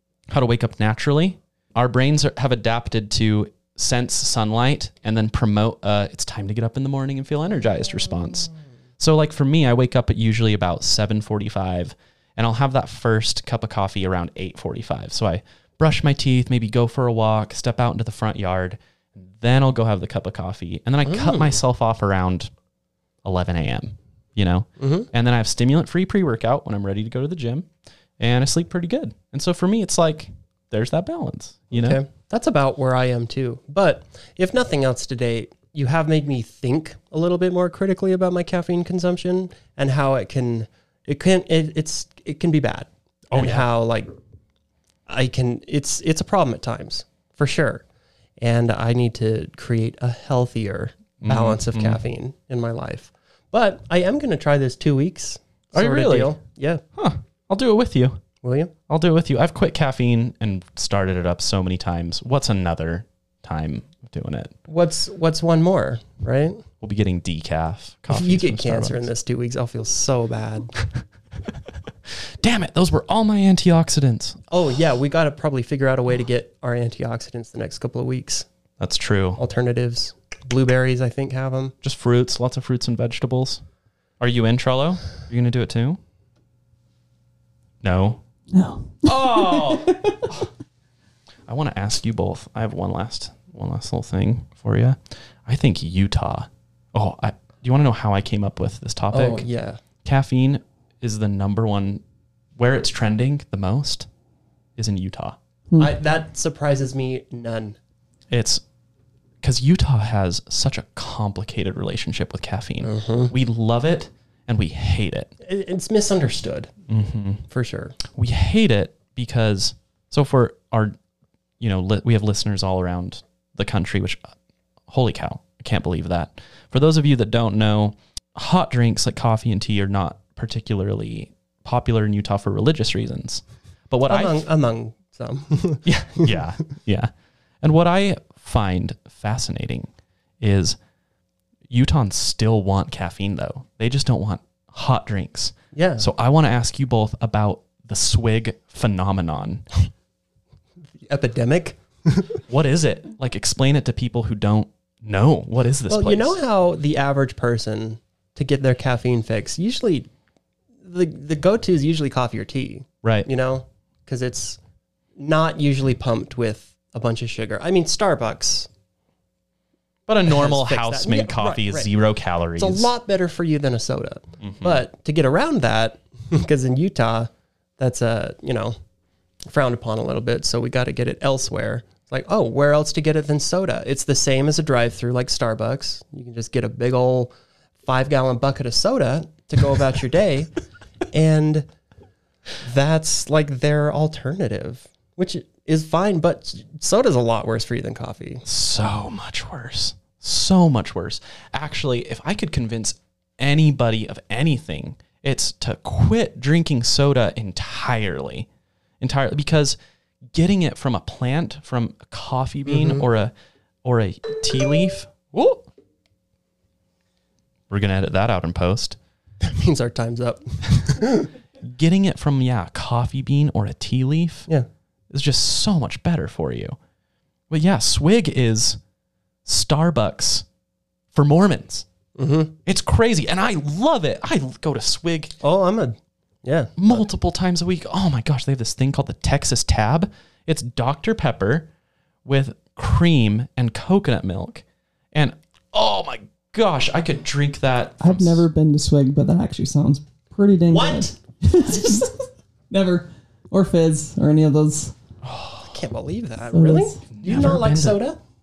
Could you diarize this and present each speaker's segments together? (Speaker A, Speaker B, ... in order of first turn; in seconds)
Speaker A: 0.3-22.5, 23.2-32.0, 43.3-43.7, 51.2-52.0, 55.7-56.4, 57.0-58.2, 58.9-64.5, 66.8-69.1, 72.4-74.4, 78.8-79.4, 81.8-83.6, 84.2-86.0, 87.8-88.2, 89.0-90.4, 91.5-99.5, 100.0-102.0, 102.6-104.1, 104.8-105.4, 108.3-108.6, 109.4-115.3, 116.9-117.4, 118.1-121.0, 121.6-124.3, 124.9-134.4, 135.8-137.1, 137.6-139.9, 140.4-140.8, 141.7-149.6, 152.5-156.4, 163.0-163.3, 170.1-172.9, 174.4-174.8, 198.4-208.5, 209.0-209.8, 210.3-213.3, 213.8-215.6, 217.7-219.0, 221.6-224.5, 225.1-226.8, 227.5-228.8, 229.4-230.5, 231.1-231.9, 232.6-235.3, 236.8-241.7, 242.2-248.4, 255.2-255.7, 257.1-258.0
Speaker B: 21.1-21.6, 24.8-25.1, 31.7-44.1, 45.1-47.9, 48.4-56.8, 58.4-58.7, 64.7-66.6, 68.1-70.7, 74.5-78.5, 79.4-81.7, 99.1-99.8, 105.8-107.8, 112.8-113.3, 115.4-116.7, 117.5-118.0, 134.1-136.4, 145.7-146.1, 151.0-152.4, 155.9-160.1, 160.8-164.6, 165.2-168.7, 170.2-171.9, 172.6-178.8, 179.4-187.3, 187.8-190.5, 191.1-191.7, 192.6-198.4, 212.7-213.1, 219.4-221.3, 232.2-232.6, 235.4-237.0, 250.7-251.2, 255.6-258.2
Speaker C: 88.5-90.2, 105.7-106.0, 248.0-254.9, 256.5-257.1